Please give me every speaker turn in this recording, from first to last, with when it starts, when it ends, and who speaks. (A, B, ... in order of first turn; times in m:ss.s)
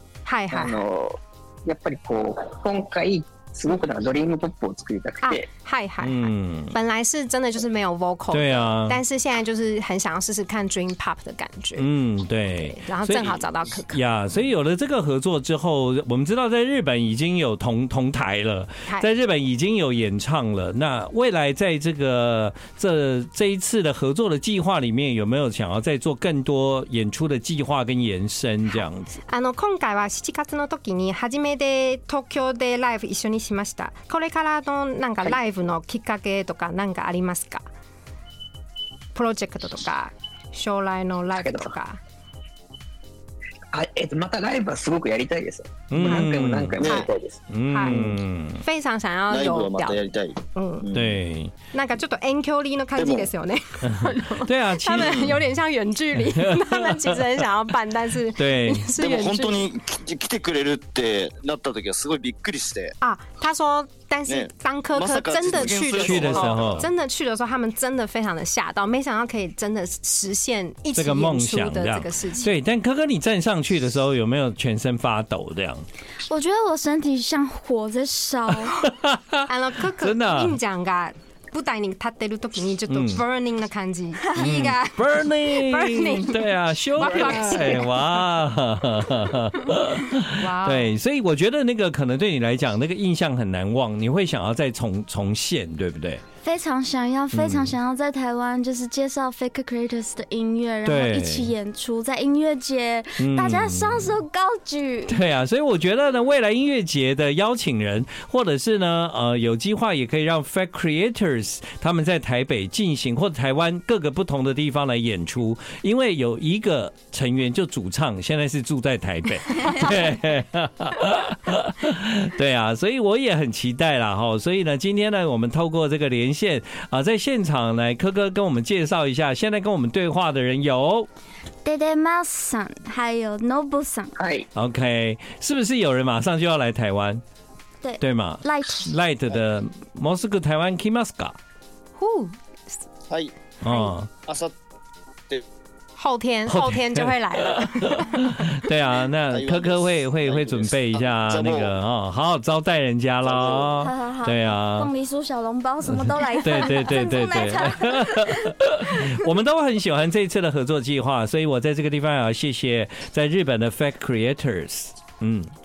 0:00.2-0:00.8 A
0:00.5-0:05.4 B
0:05.2-0:11.8 A
0:06.0-0:06.8 C
0:08.3-0:09.0 C
0:11.8-0:29.2 C
0:12.6-0:14.0 A
0:29.3-0:37.6 A
0:39.1-0:42.0 A
0:41.3-0:41.7 B
0:43.7-0:47.4 B
0:45.9-0:46.9 C
0:46.0-0:46.3 A
0:46.8-0:47.0 D
0:46.8-0:47.1 A
0:47.5-0:48.6 C
0:47.7-0:50.0 A
0:47.9-0:48.1 B
0:49.3-0:51.2 D
0:50.5-0:50.9 A
0:50.9-0:51.5 C
0:51.7-0:59.7 A
0:53.0-0:53.3 D
0:53.8-0:55.4 C
0:56.2-0:57.2 C
0:58.3-0:58.9 C
0:59.0-1:03.0 D
1:03.0-1:12.5 A
1:04.2-1:06.8 D
1:06.0-1:06.9 C
1:10.9-1:15.8 C
1:16.3-1:18.8 E
1:18.7-1:20.6 C
1:19.5-1:28.0 A
1:22.9-1:23.2 C
1:24.3-1:36.2 C
1:27.0-1:27.8 B
1:30.3-1:31.0 A
1:36.4-1:45.2 E
1:37.3-1:37.8 C
1:40.8-1:41.5 C
1:43.2-1:44.2 C
1:45.1-2:11.1 C
2:11.6-2:14.1 E
2:14.2-2:14.5 B
2:14.6-2:17.2 C
2:17.8-2:18.9 E
2:18.0-2:21.4 C
2:22.0-2:22.8 A
2:23.1-2:23.3 D
2:23.6-2:24.1 C
2:23.6-2:23.9 A
2:24.2-2:24.5 D
2:26.0-2:28.4 A
2:26.5-2:34.9 C
2:29.3-2:31.7 D
2:33.2-2:33.7 D
2:33.7-2:39.2 E
2:35.8-2:45.5 C